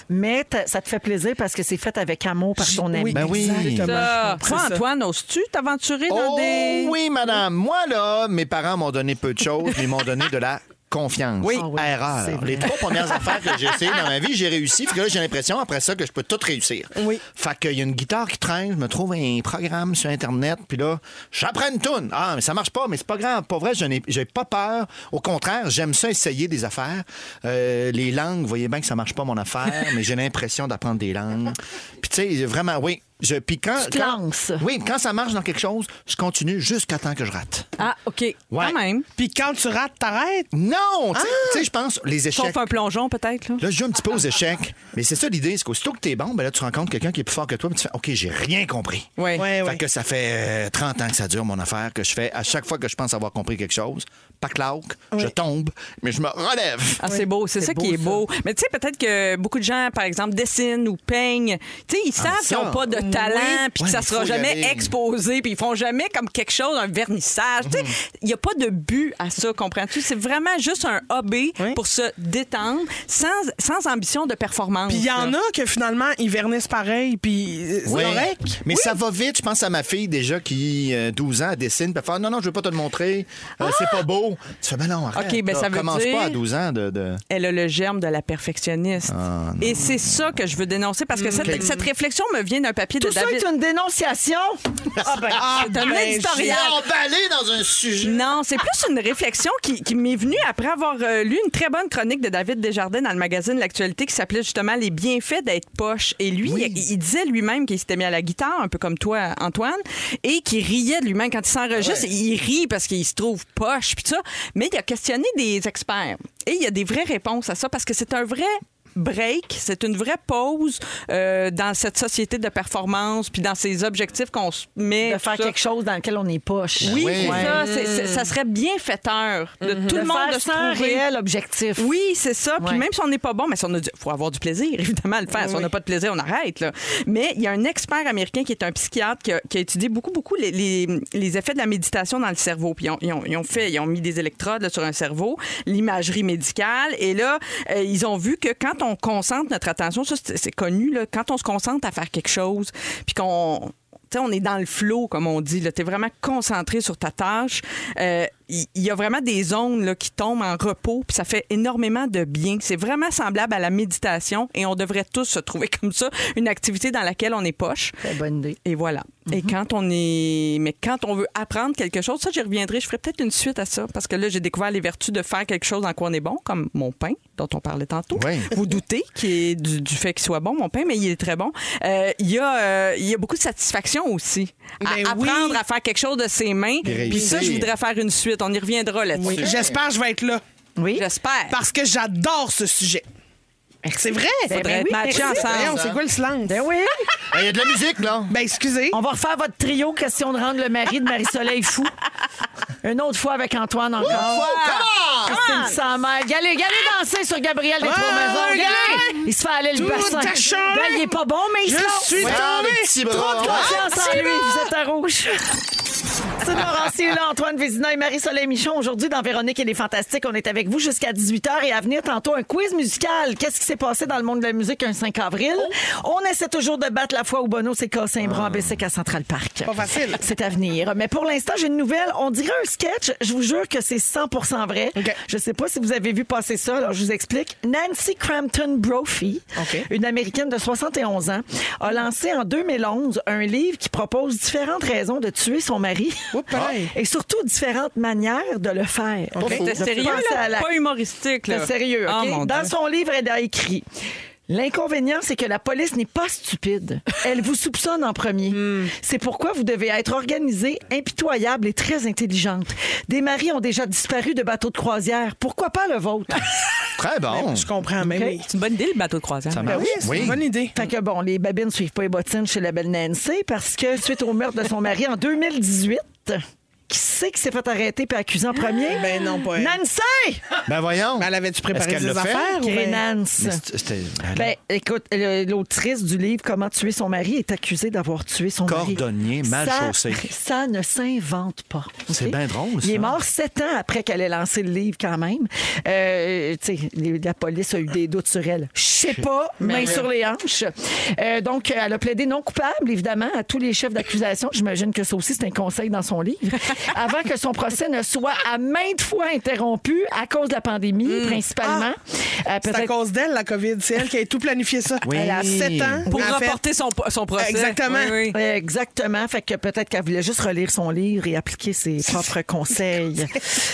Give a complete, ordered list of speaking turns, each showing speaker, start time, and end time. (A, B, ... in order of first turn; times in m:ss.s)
0:00.1-0:03.4 A
0:02.6-0:04.8 B
0:03.1-0:04.1 C
0:03.8-0:07.0 D
0:06.1-0:37.7 C
0:11.4-0:13.3 A
0:17.0-0:17.2 B
0:33.8-0:34.6 A
0:37.8-0:39.1 D
0:38.5-0:38.8 C
0:39.2-0:40.5 B
0:40.5-0:42.7 C
0:41.1-0:41.6 B
0:42.3-0:43.6 D
0:43.6-0:57.0 C
0:49.2-0:49.5 D
0:49.4-0:49.8 B
0:57.0-1:15.4 D
0:57.6-0:58.2 A
1:02.2-1:04.9 C
1:07.6-1:08.0 C
1:14.9-1:18.7 B
1:17.8-1:27.2 C
1:23.6-1:24.0 D
1:25.1-1:26.4 D
1:27.3-1:33.4 D
1:29.1-1:30.3 C
1:31.2-1:31.8 B
1:31.4-1:31.7 C
1:33.0-1:35.4 A
1:35.0-1:35.8 C
1:35.2-1:36.7 B
1:35.4-1:36.8 D
1:36.4-1:38.2 C
1:38.0-2:05.5 D
1:46.4-1:46.8 C
2:05.0-2:07.6 A
2:06.8-2:07.6 C
2:06.8-2:11.0 D
2:07.4-2:08.3 B
2:09.6-2:10.0 B
2:09.9-2:11.9 A
2:11.8-2:48.0 D
2:12.6-2:12.8 A
2:15.3-2:15.7 B
2:48.0-2:48.6 A
2:48.6-3:09.5 D
2:58.1-2:58.5 C
3:04.8-3:05.6 B
3:06.8-3:07.7 C
3:07.0-3:07.5 B
3:09.2-3:10.4 B
3:09.2-3:09.8 C
3:10.8-3:11.0 A
3:10.9-3:11.6 D
3:11.5-3:13.0 B
3:13.8-3:15.4 A
3:14.0-3:16.7 B
3:14.5-3:15.8 D
3:15.4-3:16.0 C
3:16.4-3:17.1 A
3:17.3-3:18.3 C
3:18.3-3:19.0 B
3:18.9-3:21.9 A
3:22.8-3:24.5 A
3:24.0-3:25.4 C
3:24.1-3:25.7 D
3:25.2-3:32.4 A
3:27.8-3:31.1 B
3:31.6-3:34.1 B
3:32.2-3:33.9 C
3:33.1-3:35.4 A
3:36.4-4:10.7 A
3:48.2-3:48.8 C
3:49.6-3:50.2 B
3:59.6-3:59.9 B
4:06.3-4:06.9 B
4:06.5-4:06.8 C
4:09.3-4:09.7 B
4:09.4-4:09.8 C
4:09.5-4:12.7 D
4:11.5-4:13.8 A
4:14.5-4:26.6 A
4:18.5-4:18.9 B
4:27.0-4:27.7 C
4:27.3-4:28.5 B
4:28.0-4:28.4 A
4:28.5-4:29.7 D
4:29.5-4:30.4 C
4:29.6-4:30.8 B
4:29.7-4:40.4 A
4:38.9-4:39.8 B
4:40.6-4:42.6 C
4:41.2-4:43.0 B
4:42.6-4:43.6 A
4:43.4-4:44.5 C
4:44.3-5:12.9 A
4:48.6-4:50.3 C
4:52.1-4:53.2 C
4:59.6-5:00.1 D
5:11.0-5:11.4 D
5:11.6-5:11.9 B
5:12.6-5:16.6 B
5:15.0-5:16.1 C
5:15.1-5:15.7 A
5:16.1-5:18.4 D
5:17.4-5:18.2 B
5:18.3-5:23.5 A